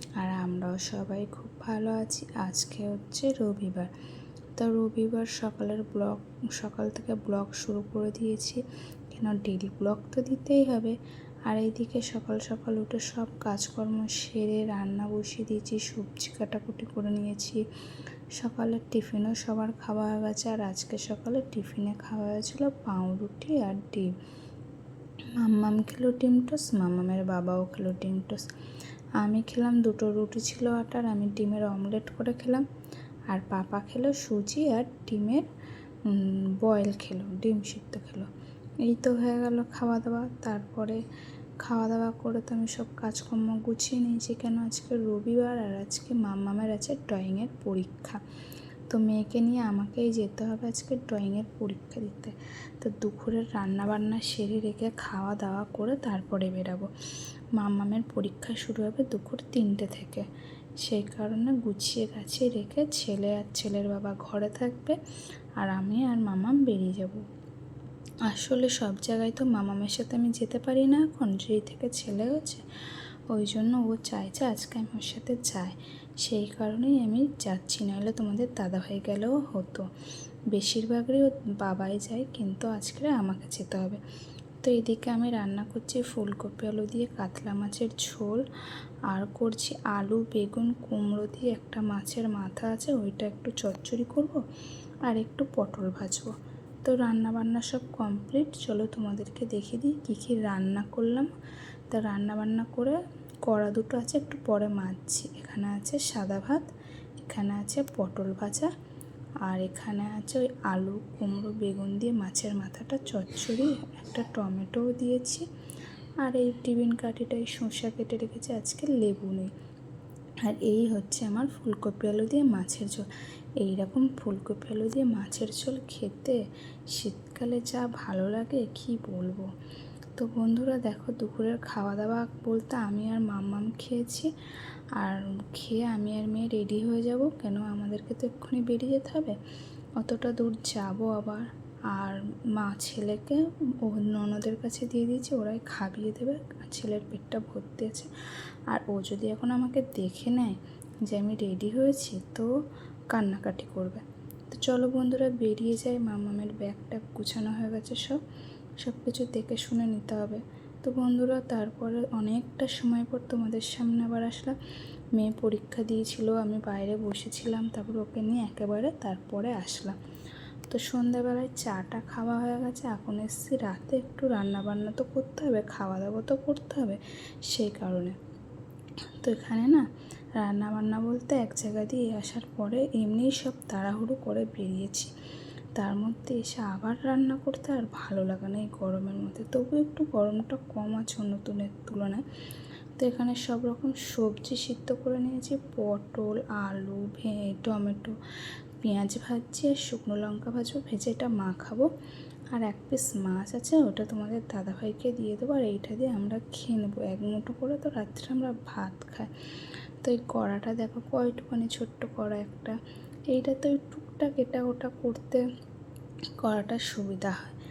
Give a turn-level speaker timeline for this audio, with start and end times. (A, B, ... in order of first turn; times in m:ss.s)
0:00.2-0:03.9 A
0:04.6-0:17.6 A
0:18.3-0:24.1 A
0:25.4-0:28.5 A
0:29.2-0:32.6 A
0:33.3-0:35.5 A
0:36.0-0:38.3 A
0:38.8-0:41.0 A
0:41.6-0:48.2 A
0:48.9-0:56.9 A
0:57.6-1:00.3 A
1:00.8-1:05.0 A
1:05.6-1:07.2 A
1:08.3-1:12.7 A
1:13.3-1:19.9 A
1:20.5-1:24.0 A
1:24.6-1:28.4 A
1:29.1-1:34.4 A
1:35.0-1:36.3 A
1:36.8-1:41.3 A
1:41.9-1:48.7 A
1:49.4-1:55.5 A
1:56.2-1:59.5 A
2:00.4-2:03.1 A
2:03.6-2:09.5 A
2:10.2-2:14.3 A
2:15.0-2:19.4 A
2:20.0-2:28.1 A
2:28.7-2:32.5 A
2:33.1-2:38.2 A
2:38.8-2:44.6 A
2:45.1-2:50.0 A
2:50.7-2:58.2 A
2:59.2-3:05.1 A
3:05.8-3:12.2 A
3:13.0-3:18.2 A
3:18.8-3:21.9 A
3:22.5-3:29.3 A
3:30.0-3:32.8 A
3:33.3-3:35.5 A
3:36.4-3:37.6 A